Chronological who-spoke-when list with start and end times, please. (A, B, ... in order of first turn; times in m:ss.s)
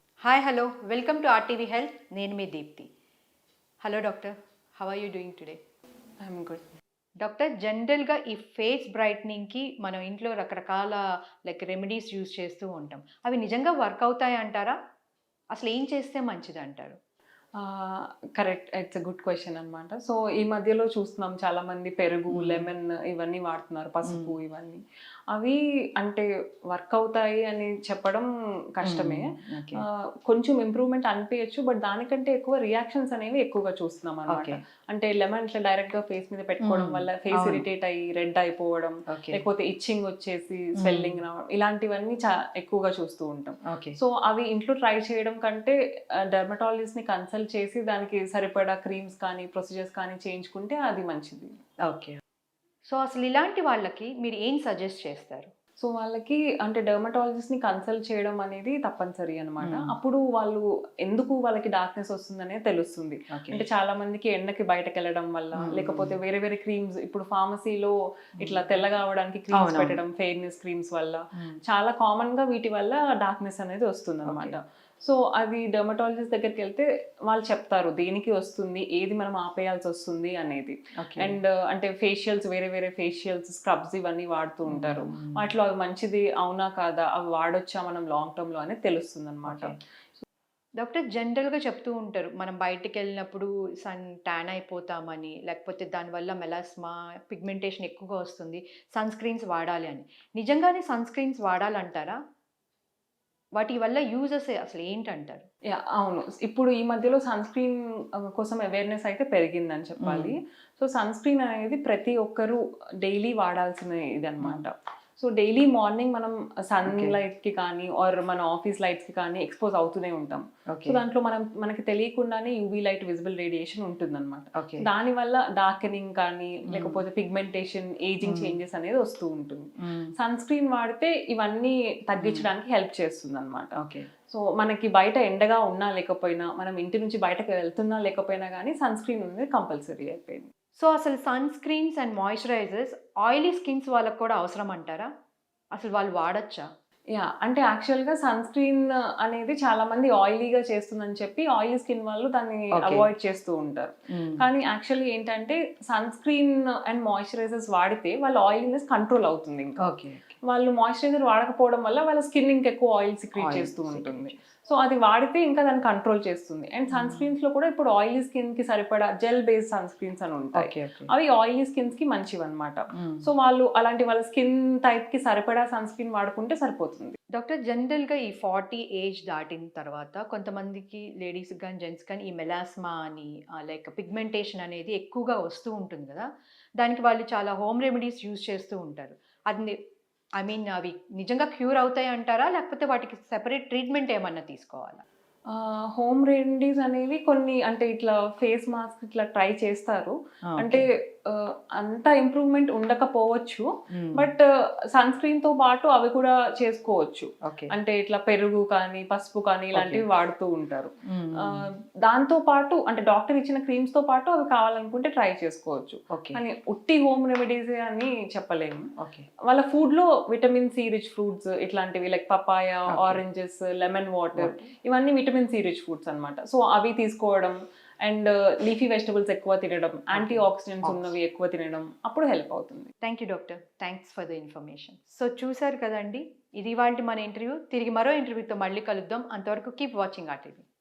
0:00.2-0:02.9 A
0:03.8-0:05.6 A
0:06.2-0:06.6 B
0:07.2-0:14.8 A
0:15.5-0:17.0 A
0:17.6-0:45.8 B
0:22.3-0:22.6 A
0:24.1-0:24.3 A
0:28.9-0:29.8 A
0:34.3-0:34.6 A
0:36.6-0:37.6 A
0:39.1-0:39.4 A
0:40.8-0:41.2 A
0:43.7-0:44.0 A
0:46.3-0:51.6 B
0:51.8-0:52.2 A
0:52.9-0:55.5 A
0:55.8-1:29.8 B
0:59.6-0:59.9 A
1:03.3-1:03.6 A
1:05.6-1:06.2 A
1:09.5-1:10.0 A
1:14.3-1:14.6 A
1:24.7-1:25.3 A
1:30.8-1:42.2 A
1:43.6-1:45.5 A
1:45.7-2:20.5 B
1:50.0-1:50.3 A
2:08.3-2:08.5 A
2:12.2-2:12.5 A
2:13.8-2:14.0 A
2:20.8-2:25.1 A
2:25.8-2:26.6 A
2:27.1-2:39.8 B
2:32.7-2:33.1 A
2:34.1-2:34.4 A
2:39.8-2:40.3 A
2:40.4-2:57.2 B
2:43.4-2:44.3 A
2:46.9-2:47.3 A
2:50.6-2:51.0 A
2:57.4-3:06.3 A
3:06.8-3:09.8 A
3:10.4-3:15.0 A
3:15.5-3:38.9 B
3:20.5-3:20.8 A
3:24.0-3:24.3 A
3:36.2-3:36.4 A
3:39.5-3:52.9 B
3:50.2-3:51.0 A
3:53.0-4:00.6 A